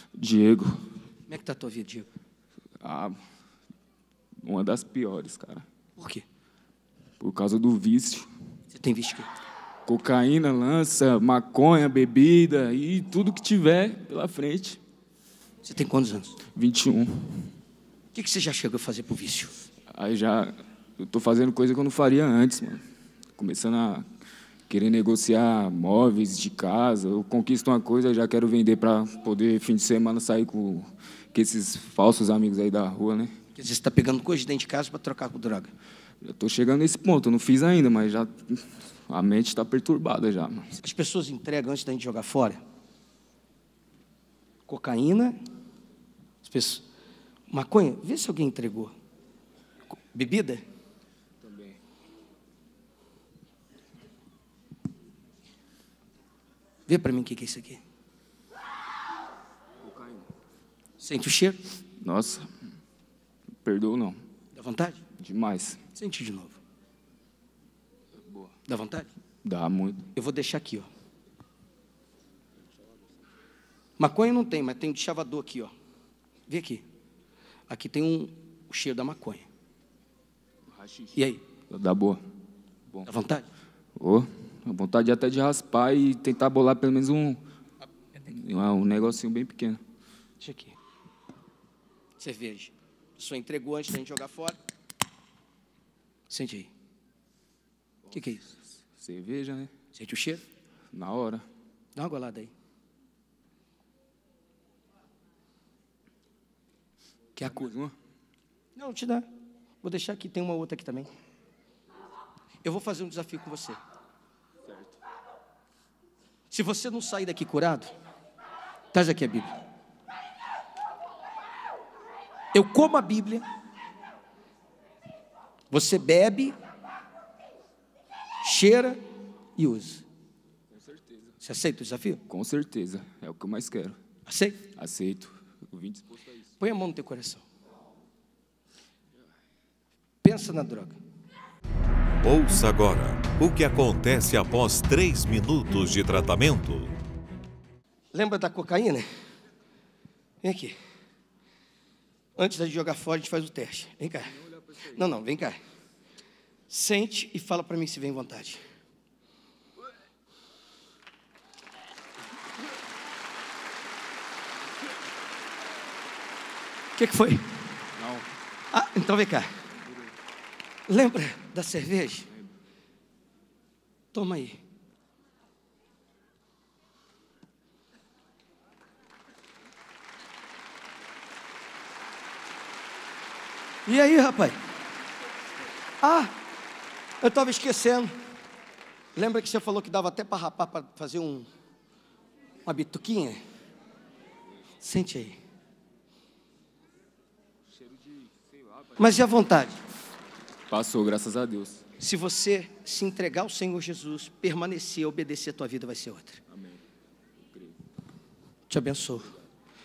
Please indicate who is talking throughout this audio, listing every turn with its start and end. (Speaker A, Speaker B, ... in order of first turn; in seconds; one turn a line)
Speaker A: 0.2-0.8
Speaker B: 1.3-2.1
Speaker A: 2.8-3.1
Speaker A: 4.4-5.7
Speaker B: 6.0-6.2
Speaker A: 7.2-8.3
Speaker B: 8.7-9.3
Speaker A: 9.8-14.8
Speaker B: 15.6-16.4
Speaker A: 16.5-17.5
Speaker B: 18.1-19.5
Speaker A: 19.9-22.8
Speaker A: 23.4-24.1
Speaker A: 24.7-33.3
Speaker B: 33.6-35.7
Speaker A: 36.2-40.7
Speaker B: 40.8-42.6
Speaker B: 44.7-45.4
Speaker B: 46.4-46.9
Speaker B: 47.5-48.9
Speaker B: 49.9-50.6
Speaker A: 51.4-51.8
Speaker B: 56.9-57.8
Speaker A: 59.8-60.3
Speaker B: 61.0-61.6
Speaker A: 62.0-62.5
Speaker A: 63.6-64.2
Speaker B: 64.5-65.0
Speaker A: 65.2-65.8
Speaker B: 66.0-66.6
Speaker A: 68.3-68.5
Speaker B: 68.7-69.1
Speaker A: 69.4-70.1
Speaker B: 70.2-70.9
Speaker B: 74.0-75.7
Speaker B: 76.5-76.8
Speaker B: 77.7-79.5
Speaker A: 80.7-81.2
Speaker B: 81.1-81.4
Speaker A: 81.7-82.2
Speaker B: 83.0-83.5
Speaker A: 84.0-87.4
Speaker A: 88.3-89.8
Speaker B: 90.4-90.8
Speaker B: 92.2-94.6
Speaker B: 96.3-96.7
Speaker B: 98.1-98.5
Speaker A: 98.8-99.7
Speaker B: 99.9-100.4
Speaker A: 100.9-101.5
Speaker B: 102.0-102.5
Speaker A: 107.3-108.0
Speaker B: 108.8-109.3
Speaker B: 109.8-111.1
Speaker B: 112.6-113.8
Speaker A: 114.7-115.0
Speaker B: 116.5-117.9
Speaker B: 118.9-119.5
Speaker B: 122.5-123.5
Speaker B: 125.7-126.6
Speaker B: 128.4-129.0
Speaker B: 129.6-130.1
Speaker A: 130.7-131.3
Speaker B: 131.4-132.2
Speaker A: 132.3-134.0
Speaker B: 134.3-134.7
Speaker A: 134.8-136.4
Speaker B: 136.6-137.4
Speaker B: 140.2-141.0
Speaker C: 142.2-146.9
Speaker B: 148.1-149.1
Speaker B: 150.4-150.8
Speaker B: 152.4-155.6
Speaker A: 154.4-155.0
Speaker B: 156.7-158.6
Speaker B: 167.0-167.5
Speaker A: 168.0-168.3
Speaker B: 168.7-169.7
Speaker B: 170.9-172.3
Speaker B: 174.1-174.6
Speaker B: 183.9-184.6
Speaker B: 186.0-186.3
Speaker B: 187.2-188.1
Speaker B: 189.2-191.5
Speaker B: 192.7-193.4
Speaker B: 194.8-195.4
Speaker A: 197.8-199.2
Speaker B: 199.0-199.8
Speaker A: 200.7-201.8
Speaker B: 202.0-206.4
Speaker A: 206.5-206.8
Speaker B: 208.7-209.3